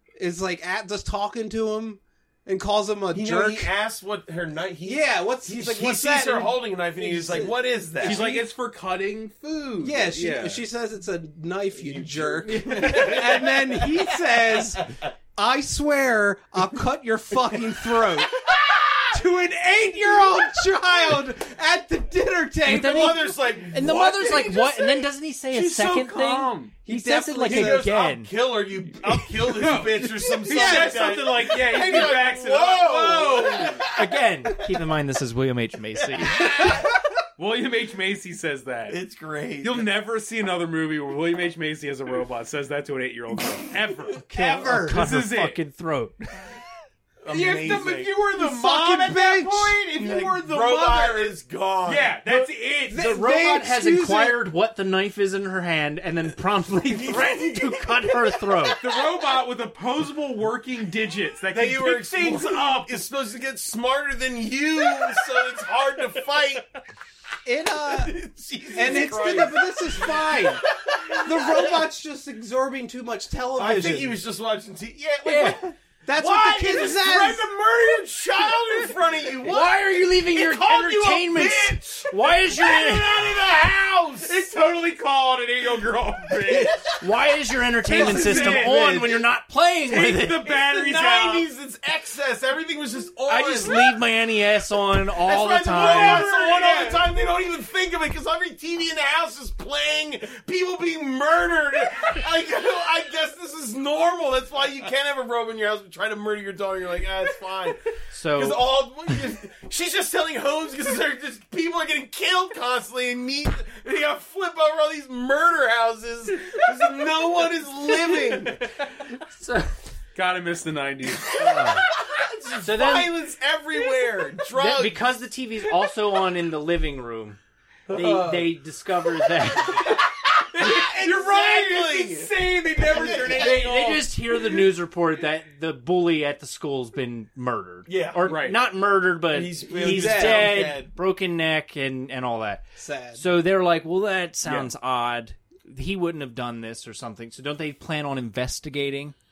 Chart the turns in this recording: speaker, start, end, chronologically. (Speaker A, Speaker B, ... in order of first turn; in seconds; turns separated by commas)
Speaker A: 0.2-3.7, Speaker B: 3.1-8.3, Speaker A: 4.8-8.4, Speaker C: 8.0-10.6, Speaker A: 9.8-18.4, Speaker B: 11.8-15.0, Speaker C: 12.4-13.5, Speaker B: 17.9-19.2, Speaker A: 19.1-23.2, Speaker B: 22.6-25.1, Speaker D: 22.7-28.3, Speaker C: 25.5-26.8, Speaker A: 26.8-27.9, Speaker B: 27.4-34.0, Speaker C: 29.5-33.8, Speaker A: 30.3-31.2, Speaker D: 34.0-36.7, Speaker B: 36.0-36.9, Speaker C: 37.4-39.0, Speaker B: 38.9-39.9, Speaker C: 39.6-45.6, Speaker D: 44.2-46.5, Speaker A: 44.3-45.0, Speaker B: 47.2-48.1, Speaker C: 47.3-53.1, Speaker A: 48.3-49.8, Speaker B: 49.1-52.1, Speaker D: 52.3-58.8, Speaker A: 52.9-54.4, Speaker B: 56.9-59.1, Speaker C: 58.8-63.0, Speaker B: 61.5-66.7, Speaker A: 67.5-68.1, Speaker B: 67.7-71.9, Speaker A: 68.7-70.6, Speaker A: 71.2-74.2, Speaker B: 73.5-84.5, Speaker D: 75.2-75.6, Speaker A: 76.0-77.4, Speaker D: 79.4-83.3, Speaker C: 84.2-86.8, Speaker B: 86.3-87.0, Speaker D: 87.0-90.5, Speaker C: 87.9-89.2, Speaker A: 88.0-88.6, Speaker C: 89.9-91.5, Speaker B: 90.4-93.9, Speaker D: 93.3-96.3, Speaker B: 95.1-118.7, Speaker C: 95.8-97.1, Speaker D: 108.1-108.6, Speaker C: 118.1-118.9, Speaker D: 119.3-119.7, Speaker C: 120.1-121.4, Speaker B: 121.2-125.0, Speaker D: 121.4-121.8, Speaker D: 122.6-123.1, Speaker D: 124.5-127.4, Speaker B: 127.9-128.6, Speaker D: 127.9-129.9, Speaker B: 129.4-133.7, Speaker C: 130.5-134.1, Speaker D: 133.3-149.1, Speaker B: 137.9-138.3, Speaker C: 138.2-138.6, Speaker B: 139.3-140.9, Speaker A: 139.7-140.7, Speaker A: 142.8-143.2, Speaker C: 144.4-144.7